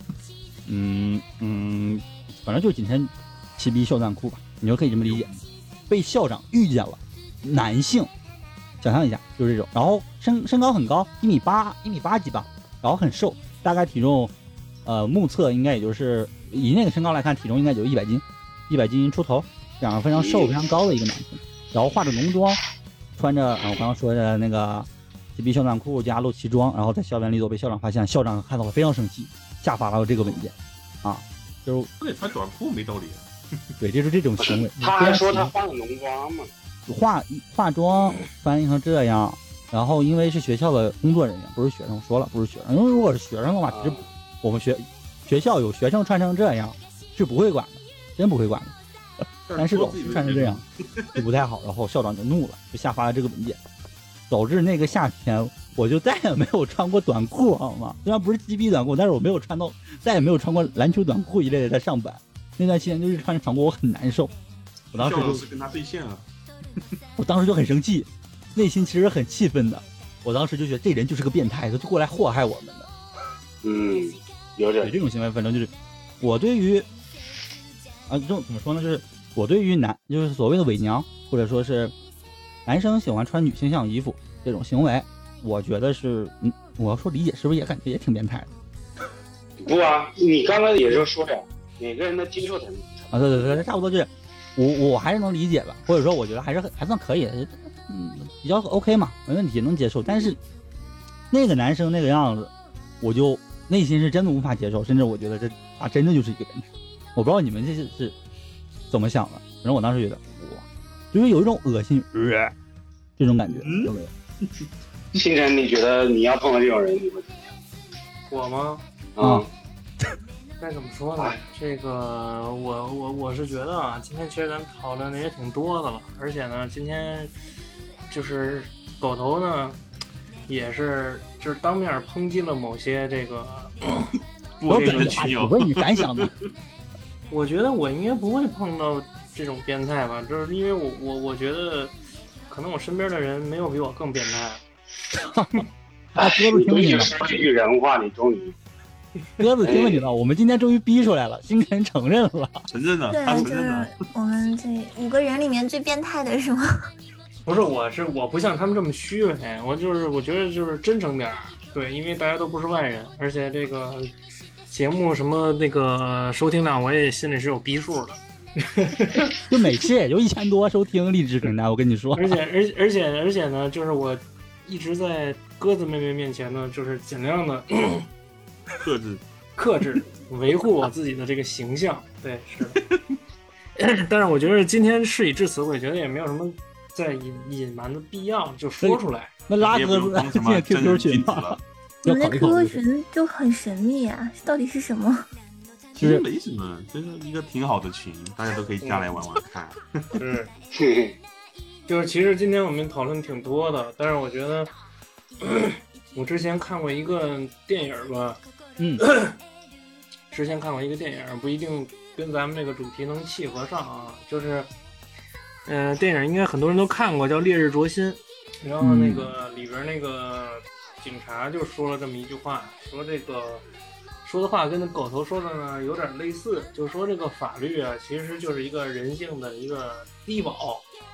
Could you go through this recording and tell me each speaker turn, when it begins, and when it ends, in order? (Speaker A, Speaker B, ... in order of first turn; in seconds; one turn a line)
Speaker A: 0.7-5.3
Speaker B: 5.0-5.4
Speaker A: 5.9-8.1
Speaker A: 8.8-14.3
Speaker A: 14.8-22.6
Speaker C: 20.1-20.6
Speaker A: 23.1-31.9
Speaker B: 32.0-33.2
Speaker A: 33.8-35.5
Speaker C: 34.4-36.5
Speaker A: 36.9-48.7
Speaker C: 43.7-44.1
Speaker B: 49.5-51.2
Speaker A: 49.5-53.6
Speaker A: 54.3-64.3
Speaker A: 64.9-65.4
Speaker B: 64.9-66.2
Speaker A: 67.2-72.9
Speaker C: 73.6-74.9
Speaker A: 74.8-76.9
Speaker A: 78.1-81.9
Speaker A: 82.7-88.5
Speaker C: 89.6-93.6
Speaker A: 93.1-100.4
Speaker A: 101.3-108.1
Speaker A: 108.9-112.5
Speaker A: 113.2-114.1
Speaker C: 115.1-117.5
Speaker D: 118.3-118.8
Speaker C: 119.2-119.5
Speaker A: 119.2-119.4
Speaker D: 120.6-127.3
Speaker D: 128.1-129.8
Speaker D: 130.5-134.1
Speaker B: 134.6-136.3
Speaker A: 134.7-136.3
Speaker D: 134.7-135.3
Speaker D: 137.3-141.9
Speaker D: 142.5-144.6
Speaker A: 145.1-145.6
Speaker A: 146.2-147.1
Speaker C: 146.2-148.5
Speaker A: 149.4-152.6
Speaker C: 149.6-150.0
Speaker B: 152.7-153.9
Speaker E: 153.1-156.6
Speaker D: 157.4-164.1
Speaker D: 164.7-169.3
Speaker A: 169.5-172.4
Speaker D: 172.1-178.1
Speaker B: 178.8-179.2
Speaker D: 179.6-182.8
Speaker D: 183.8-189.3
Speaker A: 188.8-192.8
Speaker B: 189.6-191.6
Speaker E: 192.0-195.2
Speaker B: 195.9-200.2
Speaker A: 196.0-196.2
Speaker D: 198.8-199.1
Speaker D: 200.1-200.5
Speaker C: 200.7-201.2
Speaker D: 201.9-204.7
Speaker D: 205.4-208.4
Speaker A: 208.8-209.0
Speaker D: 209.0-209.3
Speaker D: 210.3-214.7
Speaker D: 215.7-223.6
Speaker A: 218.8-219.3
Speaker D: 224.2-230.8